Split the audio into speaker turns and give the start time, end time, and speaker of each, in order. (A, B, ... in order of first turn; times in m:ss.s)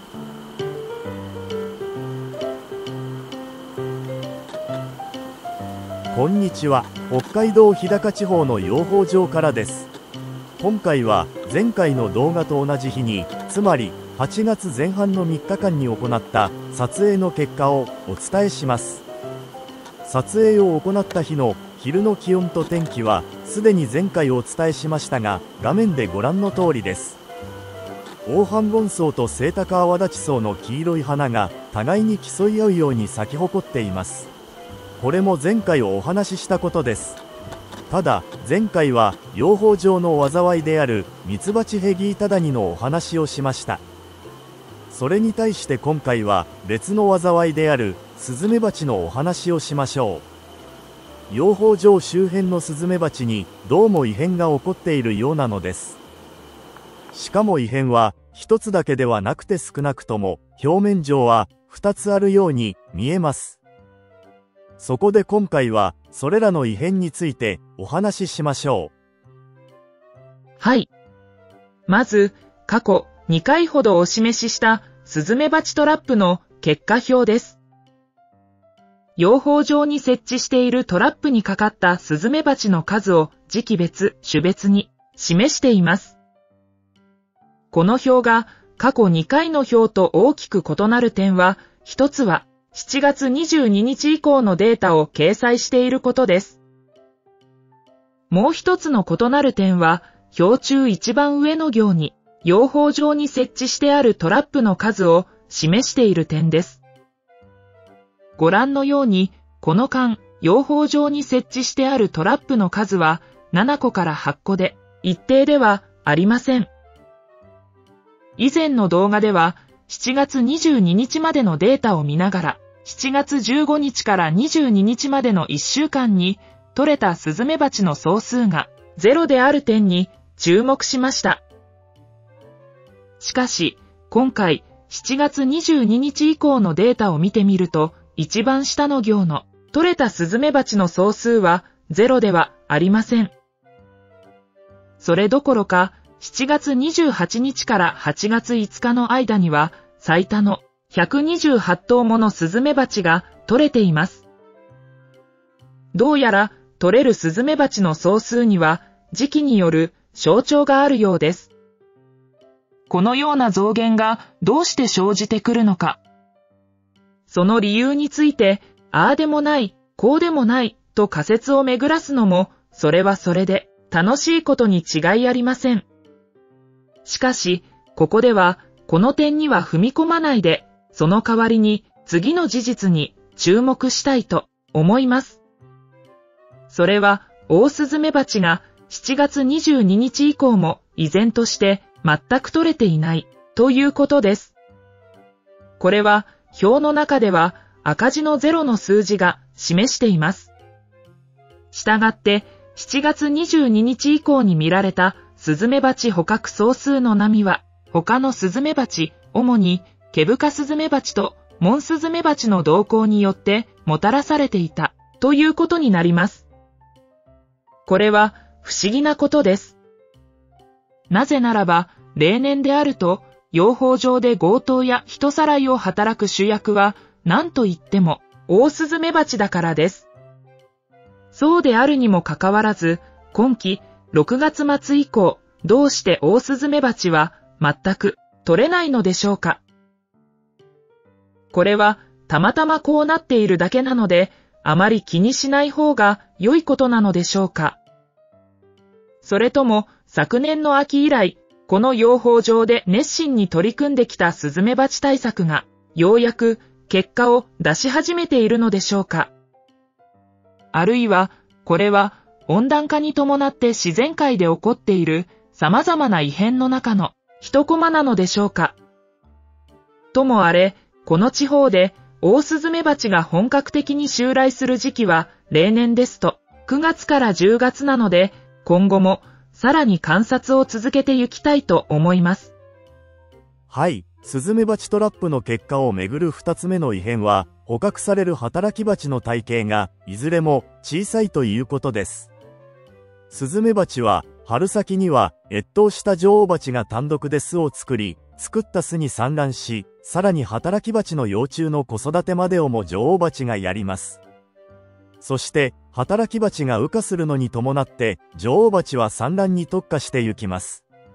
0:06.1-0:07.2 A
0:06.3-0:09.7 B
0:10.6-0:18.8 B
0:11.2-0:11.6 A
0:13.4-0:14.3 A
0:18.0-0:18.6 A
0:20.2-0:25.6 B
0:23.4-0:24.0 A
0:25.5-0:26.2 A
0:26.2-0:26.9 B
0:26.8-0:27.1 A
0:28.3-0:28.8 A
0:28.4-0:34.2 B
0:35.0-0:35.4 A
0:35.0-0:37.1 B
0:37.9-0:38.5 A
0:37.9-0:43.8 B
0:44.9-0:45.5 A
0:45.5-0:50.2 B
0:51.4-0:56.0 B
0:57.1-0:57.4 A
0:57.3-1:03.6 B
0:58.4-0:58.7 A
1:00.5-1:01.9 A
1:02.9-1:03.4 A
1:04.8-1:05.0 A
1:05.9-1:06.9 A
1:05.9-1:08.9 B
1:07.5-1:08.5 A
1:10.6-1:10.9 A
1:11.9-1:17.6 A
1:19.2-1:26.2 A
1:27.7-1:36.6 A
1:38.3-1:46.8 A
1:48.4-1:56.7 A
1:58.4-2:11.4 A
2:13.2-2:23.3 A
2:25.0-2:34.3 A
2:35.9-2:41.5 A
2:42.9-2:46.0 A
2:47.3-2:55.9 A
2:57.0-3:05.4 A
3:06.7-3:14.6 A
3:15.8-3:20.5 A
3:21.7-3:36.4 A
3:37.9-3:39.8 A
3:41.1-3:50.1 A
3:51.3-3:59.6 A
4:01.5-4:07.8 A
4:09.2-4:19.3 A
4:20.7-4:28.8 A
4:30.1-4:42.5 A
4:43.7-4:52.3 B
4:43.8-4:45.2 A
4:53.3-4:53.6 A
4:53.4-5:04.2 B
4:58.3-4:58.6 A
5:05.2-5:10.8 B
5:05.3-5:06.0 A